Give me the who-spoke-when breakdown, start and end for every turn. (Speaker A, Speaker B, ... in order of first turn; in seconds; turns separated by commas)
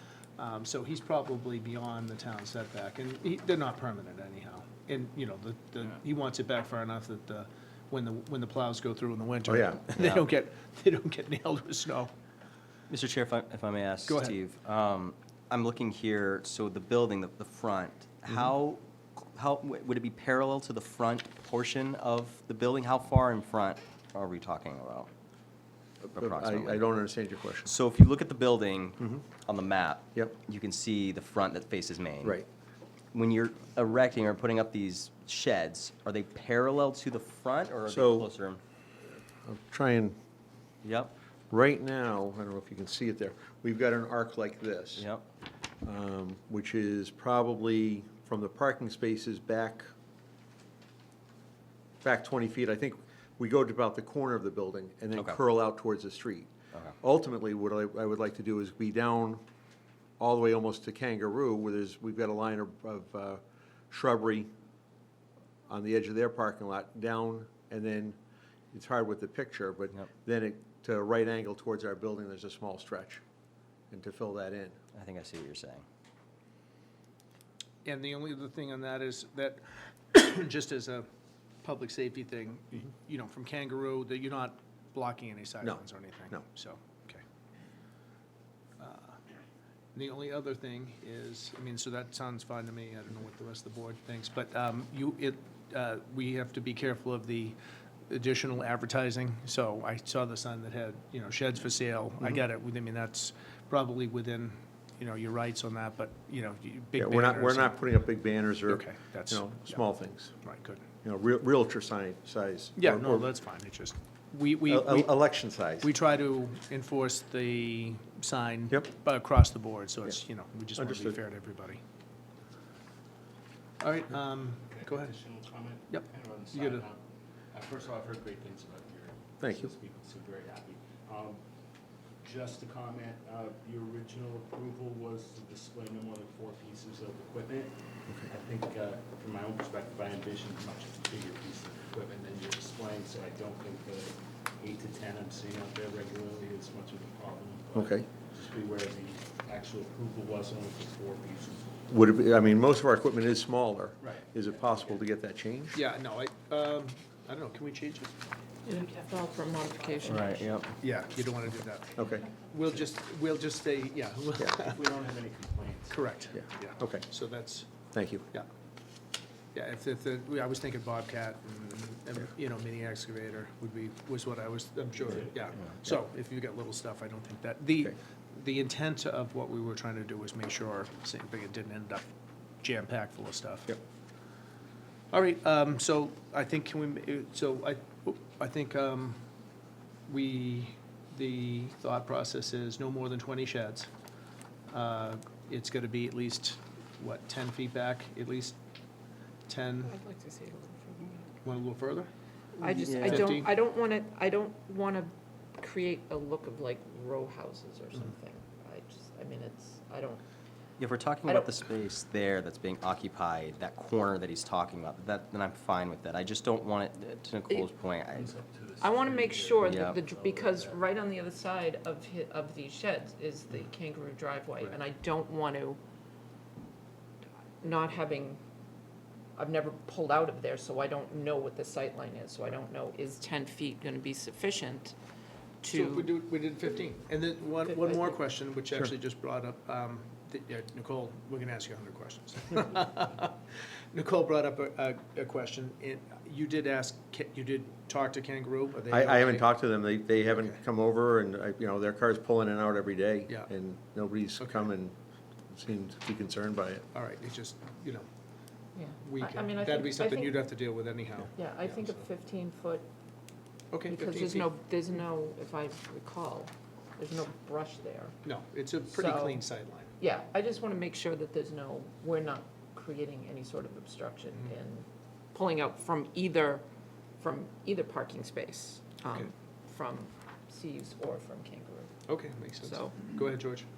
Speaker A: 0.4-12.1, Speaker B: 9.4-9.8, Speaker C: 9.9-10.3, Speaker C: 12.9-25.1, Speaker A: 14.1-14.3, Speaker B: 26.1-27.7, Speaker C: 26.1-26.9, Speaker C: 27.6-32.4, Speaker C: 33.1-38.6, Speaker B: 37.9-38.3, Speaker B: 39.4-40.1, Speaker C: 40.8-41.1, Speaker B: 41.5-45.0, Speaker C: 45.0-45.2, Speaker B: 45.8-49.9, Speaker B: 52.0-59.4, Speaker C: 55.1-55.4, Speaker B: 60.2-63.4, Speaker B: 63.9-64.5, Speaker B: 65.7-68.2, Speaker B: 68.7-73.2, Speaker B: 73.9-74.8, Speaker C: 74.9-75.8, Speaker A: 77.8-81.1, Speaker A: 81.6-87.2, Speaker A: 88.8-89.2, Speaker A: 89.9-97.5, Speaker A: 98.1-107.9, Speaker B: 107.0-110.3, Speaker A: 108.7-109.8, Speaker A: 110.4-110.8, Speaker B: 111.0-113.3, Speaker A: 112.8-115.1, Speaker B: 114.7-115.9, Speaker A: 115.8-121.8, Speaker B: 120.8-121.2, Speaker A: 123.8-125.1, Speaker D: 124.7-131.4, Speaker A: 125.9-126.8, Speaker B: 129.4-129.7, Speaker D: 132.2-151.8, Speaker B: 147.7-148.1, Speaker B: 151.9-155.7, Speaker A: 155.7-158.1, Speaker E: 158.6-160.4, Speaker C: 160.0-160.7, Speaker A: 160.8-164.8, Speaker B: 162.0-162.2, Speaker D: 164.6-166.0, Speaker A: 165.9-167.7, Speaker B: 166.8-167.0, Speaker B: 167.9-168.2, Speaker A: 169.5-183.8, Speaker D: 175.1-175.5, Speaker A: 185.1-189.2, Speaker A: 190.1-193.9, Speaker A: 194.7-198.6, Speaker A: 199.5-199.9, Speaker E: 199.8-201.3, Speaker A: 201.4-202.1, Speaker E: 202.6-210.2, Speaker C: 202.7-203.2, Speaker A: 203.0-203.5, Speaker C: 210.8-218.4, Speaker D: 218.2-220.8, Speaker E: 218.8-225.8, Speaker C: 219.6-220.1, Speaker E: 227.6-228.4, Speaker E: 229.3-234.9, Speaker E: 235.6-236.1, Speaker A: 235.7-243.4, Speaker E: 237.6-238.2, Speaker A: 243.9-249.5, Speaker B: 248.9-254.9, Speaker A: 254.4-254.7, Speaker B: 255.5-256.9, Speaker A: 256.9-258.1, Speaker E: 258.7-260.4, Speaker A: 259.0-262.0, Speaker E: 261.4-262.9, Speaker A: 263.7-264.5, Speaker E: 263.9-268.2, Speaker A: 268.2-269.9, Speaker E: 268.9-269.5, Speaker E: 270.0-276.6, Speaker E: 277.2-282.0, Speaker A: 282.1-283.7, Speaker E: 282.6-283.0